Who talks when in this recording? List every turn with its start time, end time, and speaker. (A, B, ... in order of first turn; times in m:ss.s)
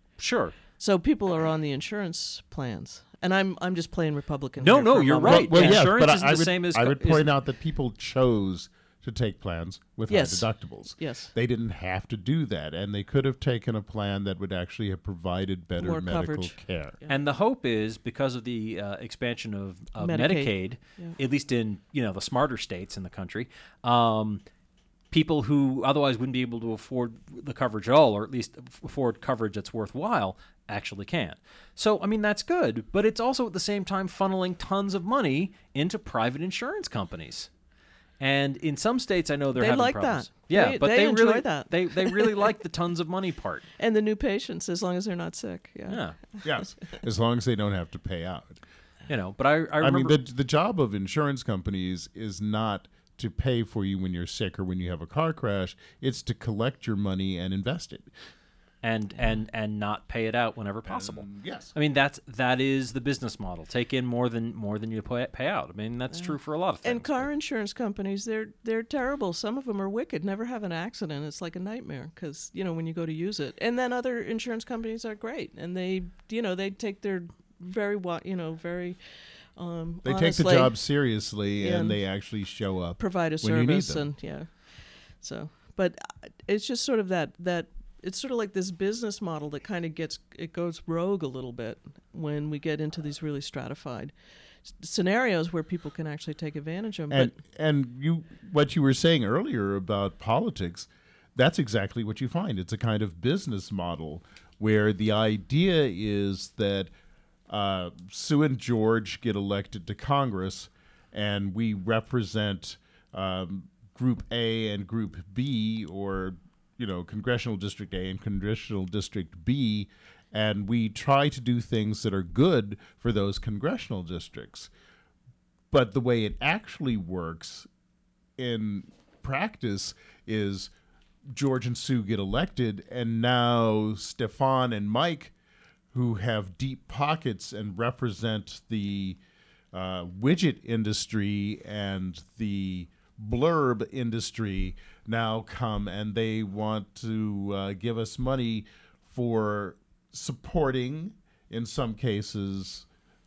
0:00.2-0:00.5 A
0:00.8-0:05.8 B
0:04.6-0:07.3 A
0:05.2-0:17.0 C
0:10.1-0:11.3 B
0:15.8-0:17.2 B
0:17.1-0:24.4 A
0:20.0-0:21.2 B
0:25.1-0:37.5 A
0:38.2-0:43.6 A
0:39.6-0:42.5 B
0:43.8-0:46.4 B
0:45.9-0:46.2 A
0:46.4-0:48.6 C
0:49.1-0:50.2 A
0:49.8-0:58.1 C
0:58.8-1:07.3 A
1:00.9-1:01.7 C
1:06.1-1:19.0 B
1:19.6-1:20.8 B
1:20.0-1:24.0 C
1:21.6-1:22.0 B
1:23.0-1:24.5 B
1:25.2-1:34.1 B
1:34.8-1:37.4 B
1:37.1-1:46.9 C
1:47.5-2:04.7 C
2:05.7-2:07.7 C
2:08.4-2:10.7 C
2:11.3-2:15.3 C
2:15.9-2:19.2 C
2:19.7-2:32.8 C